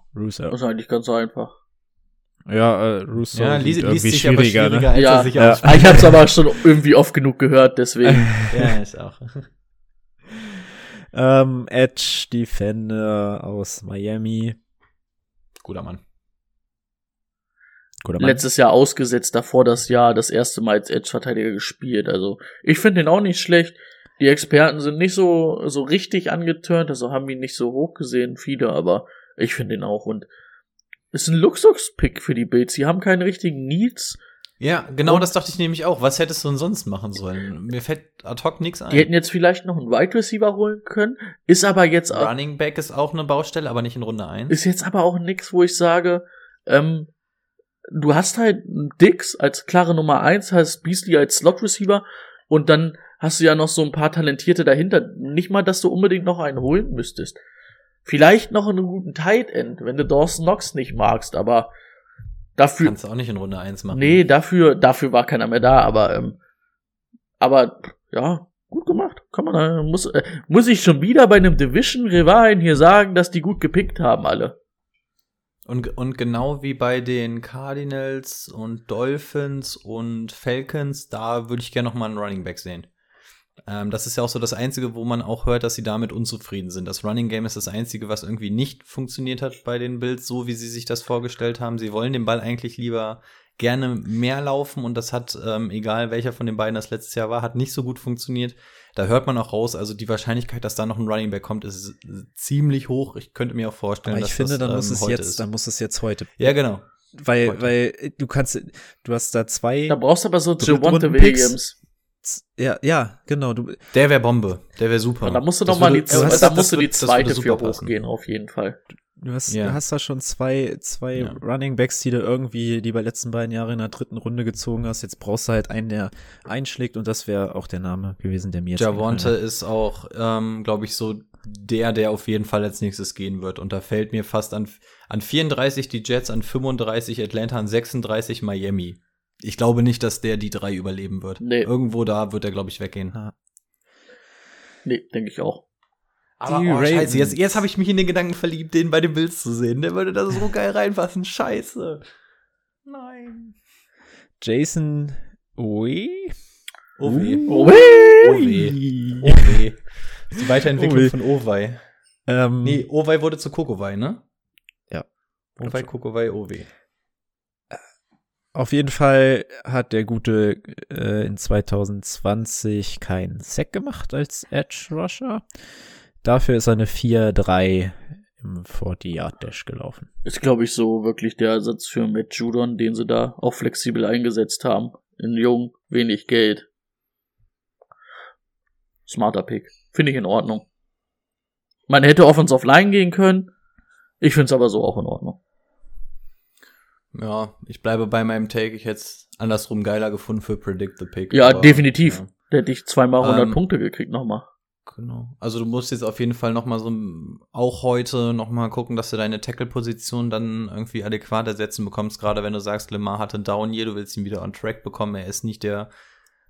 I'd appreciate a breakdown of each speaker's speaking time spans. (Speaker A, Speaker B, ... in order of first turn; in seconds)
Speaker A: 0.1-0.6, 2.5-6.2, 8.1-8.8, 11.1-14.6, 18.0-18.4, 104.0-106.6, 107.1-110.0, 110.6-111.6, 112.2-113.8, 116.1-116.6, 119.2-129.3, 146.4-147.4, 154.4-156.3, 157.1-157.7, 158.2-159.6, 160.8-161.1, 162.3-162.8, 165.6-165.9, 168.5-175.5, 176.2-180.1
Speaker B: 0.5-1.5, 4.9-8.3, 18.2-30.3, 31.1-34.2, 38.9-42.3, 44.5-47.1, 47.9-57.4, 58.1-61.7, 62.6-62.9, 63.9-66.4, 67.4-74.6, 109.9-111.8, 115.2-118.8, 141.4-141.7, 144.8-145.6, 157.5-158.2, 180.2-186.7, 189.1-190.7, 191.9-193.5, 194.2-195.4, 201.3-204.5
Speaker C: 3.3-6.2, 8.5-9.5, 15.6-16.0, 34.6-39.1, 42.1-44.6, 62.8-64.2, 75.7-82.9, 83.7-105.5, 106.4-106.9, 107.4-107.7, 113.9-117.9, 119.5-119.8, 121.2-121.4, 128.8-143.2, 146.4-152.1, 152.9-153.6, 157.0-157.5, 158.1-161.8, 162.6-164.2, 165.6-166.7, 197.1-202.3, 203.2-203.6, 204.9-215.9